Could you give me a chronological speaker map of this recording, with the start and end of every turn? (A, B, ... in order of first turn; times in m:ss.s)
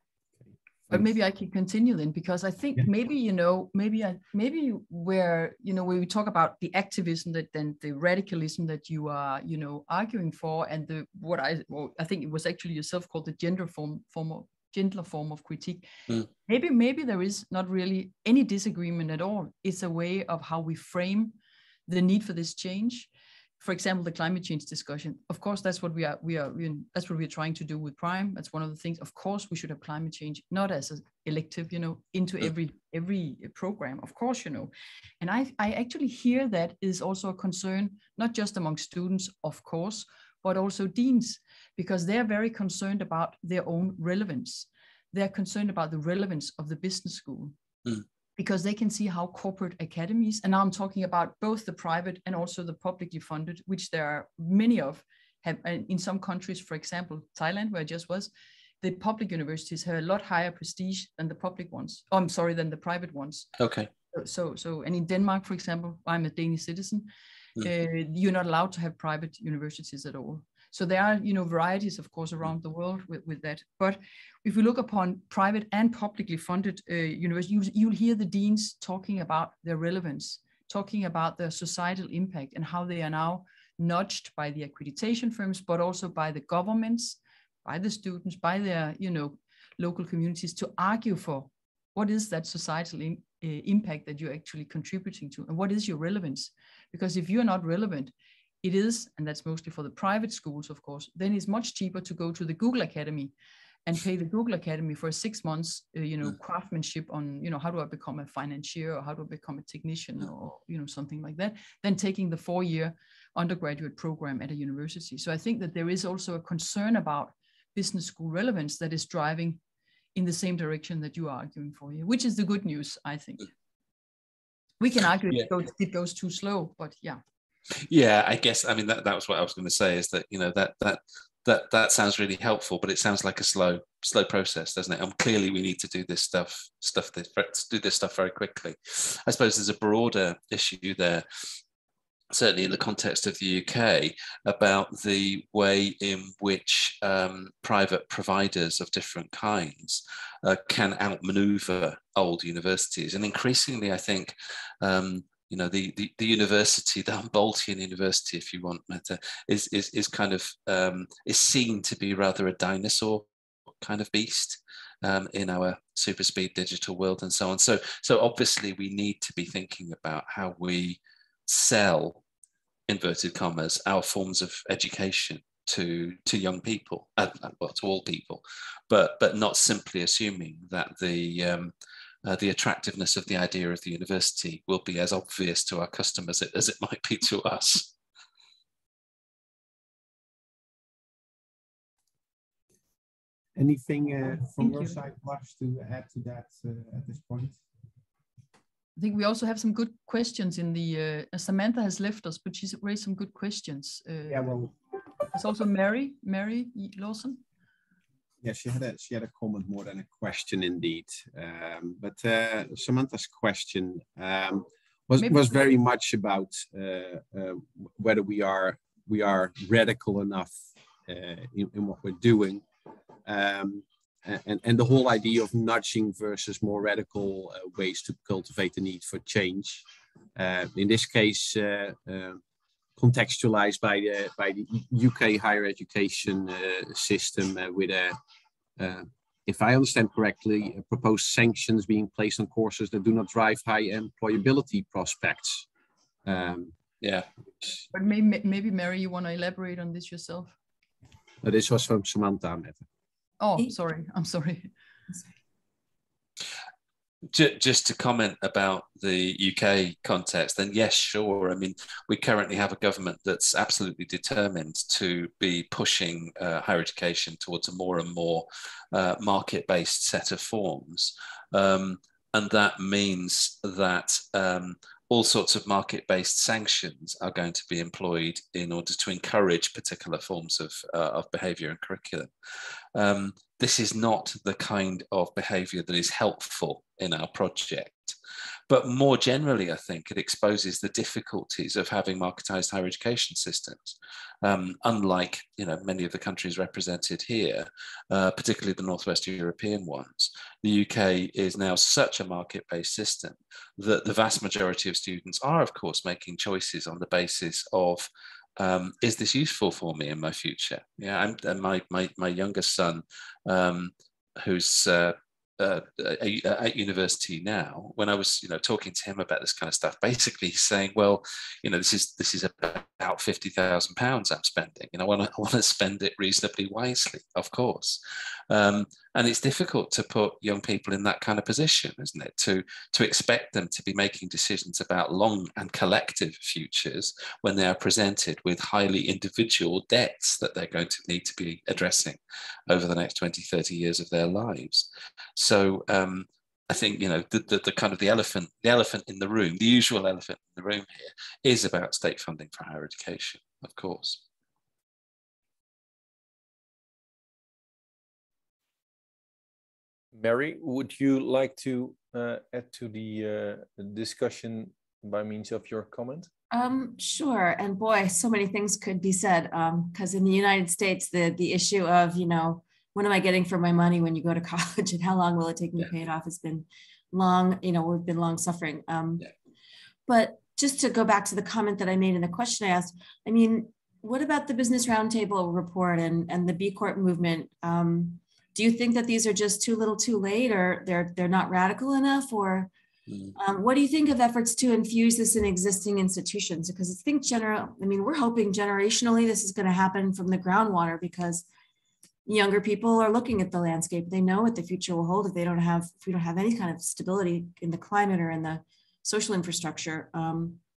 0:00.9-0:15.8 A
0:16.4-0:21.4 A
0:21.9-0:23.1 A
0:23.6-0:47.5 A
0:48.4-0:58.3 A
0:58.8-1:03.5 A
1:03.6-1:03.9 B
1:04.1-1:07.1 A
1:07.6-1:43.3 A
1:43.8-1:59.6 A
2:00.1-2:03.5 A
2:04.8-2:07.2 A
2:07.9-2:21.2 B
2:22.3-2:43.2 B
2:43.8-2:52.2 B
2:52.9-3:01.7 B
3:02.2-3:07.9 B
3:13.6-3:17.6 C
3:14.6-3:15.0 A
3:19.0-3:24.5 A
3:24.3-3:24.7 C
3:25.3-3:27.4 A
3:28.4-3:40.5 C
3:35.2-3:35.5 A
3:41.1-3:42.6 C
3:43.2-3:49.8 C
3:50.4-3:52.4 C
3:53.0-3:58.2 C
3:58.8-4:05.7 C
4:06.2-4:06.7 C
4:07.0-4:07.3 B
4:07.9-4:10.5 A
4:11.4-4:12.8 C
4:13.4-4:14.7 A
4:17.3-4:42.3 B
4:42.9-4:48.2 B
4:48.7-5:28.0 B
5:28.5-5:54.2 B
6:00.1-6:06.3 D
6:06.5-6:19.3 E
6:20.1-6:32.7 E
6:33.1-6:33.3 B
6:33.3-6:41.4 E
6:42.2-6:50.6 E